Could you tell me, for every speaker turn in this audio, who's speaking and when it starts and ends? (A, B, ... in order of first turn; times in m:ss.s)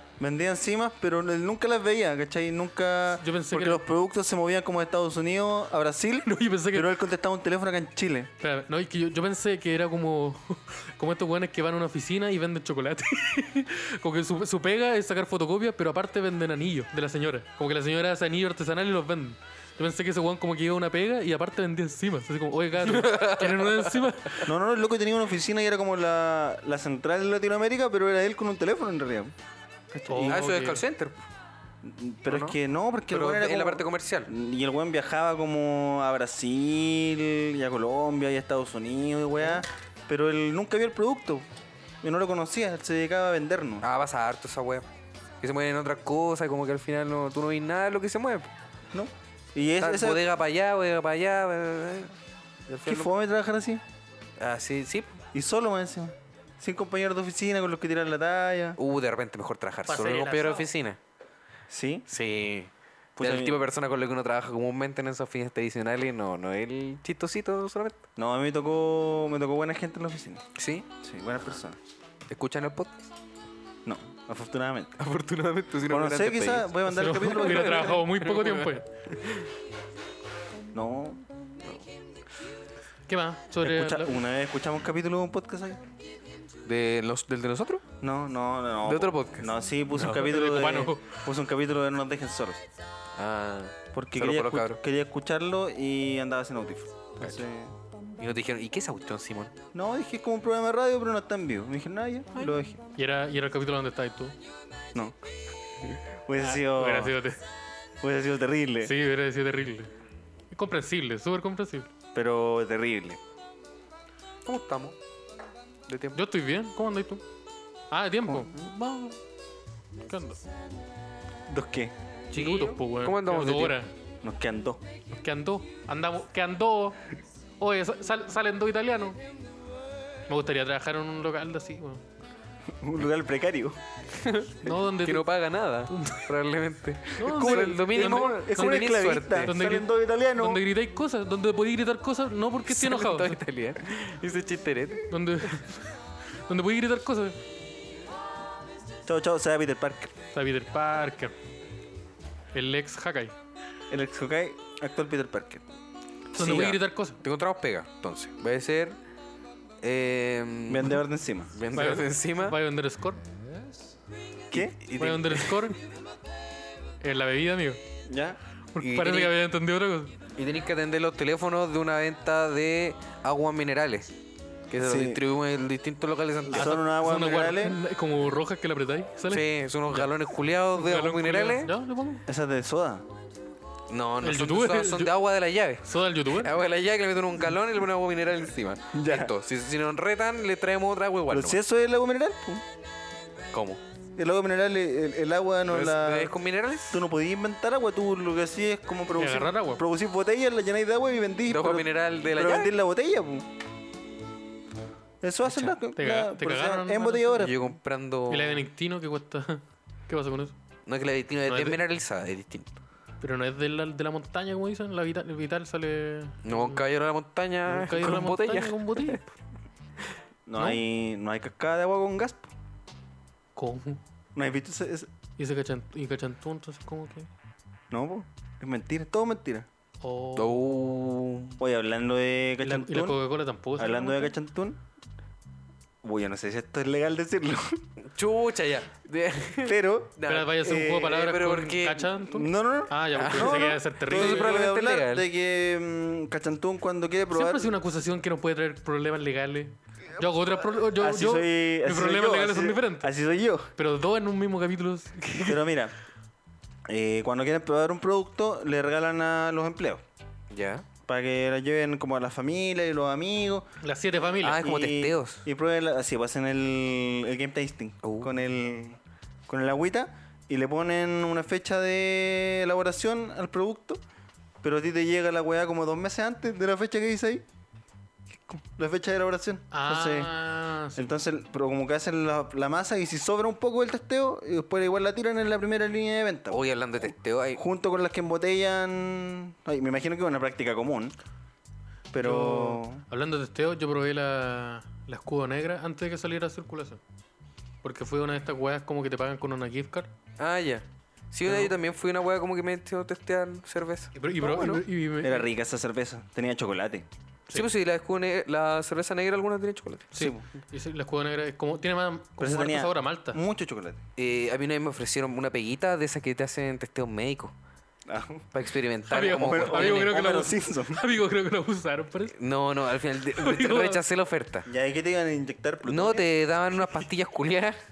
0:00.2-0:08.3 A
0:03.2-0:03.8 B
0:06.2-0:06.9 B
0:08.4-0:24.5 B
0:22.8-0:24.1 C
0:24.4-0:29.3 A
0:29.9-0:30.4 A
0:30.1-0:30.8 B
0:30.2-0:31.2 C
0:31.8-0:41.4 A
0:32.3-0:32.6 C
0:33.1-0:34.3 C
0:42.0-0:43.8 A
0:43.8-0:44.8 C
0:45.4-0:48.5 C
0:48.9-0:50.2 A
0:49.8-0:52.2 C
0:52.7-0:53.1 C
0:52.8-0:53.8 A
0:54.4-0:55.2 C
0:55.3-0:58.8 A
0:58.8-1:01.0 C
0:59.9-1:00.7 B
1:01.7-1:02.0 A
1:02.1-1:08.0 C
1:03.2-1:03.6 A
1:08.2-1:10.4 A
1:10.6-1:10.9 C
1:11.0-1:11.8 A
1:12.3-1:13.1 C
1:13.8-1:15.0 A
1:15.0-1:19.5 C
1:15.9-1:18.0 A
1:16.9-1:18.8 B
1:20.7-1:21.2 A
1:23.1-1:24.2 B
1:23.6-1:25.8 A
1:26.6-1:27.8 C
1:28.0-1:32.6 A
1:28.8-1:29.5 C
1:30.0-1:31.2 B
1:33.2-1:34.8 C
1:33.9-1:37.7 A
1:38.2-1:39.5 C
1:39.7-1:42.8 A
1:43.0-1:44.3 B
1:46.2-1:47.2 A
1:46.4-1:47.4 B
1:48.0-1:48.9 A
1:48.8-1:49.9 B
1:50.5-1:51.9 B
1:52.1-1:53.2 A
1:54.4-1:55.0 C
1:55.9-1:56.2 C
1:56.1-1:57.2 B
1:57.9-1:59.1 B
1:58.3-1:58.6 A
2:00.0-2:00.4 B
2:01.5-2:01.9 A
2:02.3-2:03.8 C
2:02.3-2:03.9 B
2:04.2-2:04.8 A
2:05.1-2:07.0 B
2:07.6-2:09.2 B
2:10.3-2:12.0 B
2:12.8-2:13.8 A
2:14.1-2:19.5 C
2:14.6-2:15.3 B
2:15.9-2:16.3 B
2:17.2-2:23.4 B
2:17.2-2:20.6 A
2:22.7-2:25.5 C
2:25.1-2:25.9 B
2:26.4-2:27.4 B
2:29.0-2:30.1 A
2:30.3-2:31.3 B
2:32.5-2:33.3 B
2:33.9-2:35.6 A
2:36.3-2:37.2 B
2:36.4-2:39.0 C
2:36.4-2:36.7 A
2:39.8-2:41.0 C
2:40.7-2:41.6 A
2:41.5-2:42.6 C
2:41.7-2:43.2 B
2:44.5-2:45.7 C
2:45.0-2:45.8 B
2:47.0-2:47.8 B
2:48.1-2:48.4 A
2:48.7-2:50.1 B
2:48.8-2:49.3 C
2:50.4-2:54.1 C
2:54.7-2:56.8 C
2:54.8-2:55.2 A
2:56.5-2:57.8 A
2:56.5-3:00.1 B
2:59.3-3:01.7 C
3:00.7-3:02.2 B
3:02.3-3:03.0 A
3:03.9-3:11.6 C
3:04.2-3:05.1 B
3:05.8-3:06.5 B
3:08.9-3:09.3 A
3:11.3-3:12.6 A
3:13.5-3:13.8 C
3:14.2-3:16.4 A
3:15.7-3:17.0 C
3:16.9-3:23.4 A
3:19.2-3:19.8 B
3:21.5-3:22.7 C
3:25.2-3:27.7 A
3:25.5-3:27.5 B
3:27.4-3:28.6 C
3:28.3-3:30.5 B
3:30.8-3:32.7 C
3:31.5-3:31.8 B
3:33.2-3:36.8 B
3:36.4-3:39.2 C
3:37.7-3:39.2 B
3:40.5-3:42.5 A
3:43.6-3:44.0 B
3:44.3-3:45.1 A
3:45.4-3:47.3 B
3:47.9-3:49.7 A
3:50.0-3:50.9 B
3:50.4-3:51.6 C
3:51.6-3:53.2 A
3:52.6-3:54.3 B
3:53.8-3:54.8 A
3:56.0-3:57.8 A
3:58.0-4:02.2 C
3:59.6-4:01.2 A
4:00.2-4:04.5 B
4:02.3-4:07.7 A
4:03.2-4:05.2 C
4:07.3-4:13.1 B
4:11.0-4:13.7 A
4:13.8-4:15.6 B
4:15.4-4:15.9 A
4:16.9-4:20.0 A
4:20.5-4:20.8 C
4:21.1-4:23.6 A
4:23.8-4:24.6 B
4:24.4-4:25.4 C
4:24.5-4:34.0 A
4:34.6-4:37.4 A
4:38.4-4:40.3 A
4:39.7-4:41.1 B
4:41.0-4:46.6 A
4:46.5-4:47.6 C
4:47.5-4:51.1 A
4:52.1-4:53.0 A
4:52.2-4:57.0 B
4:57.8-5:00.1 B
5:00.4-5:04.8 C
5:01.5-5:01.7 B
5:04.2-5:05.5 B
5:05.2-5:07.0 A
5:07.5-5:10.1 C
5:10.1-5:13.4 B
5:10.2-5:10.4 A
5:12.4-5:14.0 A
5:14.2-5:17.5 C
5:18.1-5:18.4 A
5:18.5-5:20.4 C
5:19.1-5:22.3 B
5:19.4-5:21.0 A
5:22.3-5:24.7 C
5:23.3-5:24.0 B
5:24.6-5:26.3 A
5:25.8-5:27.8 C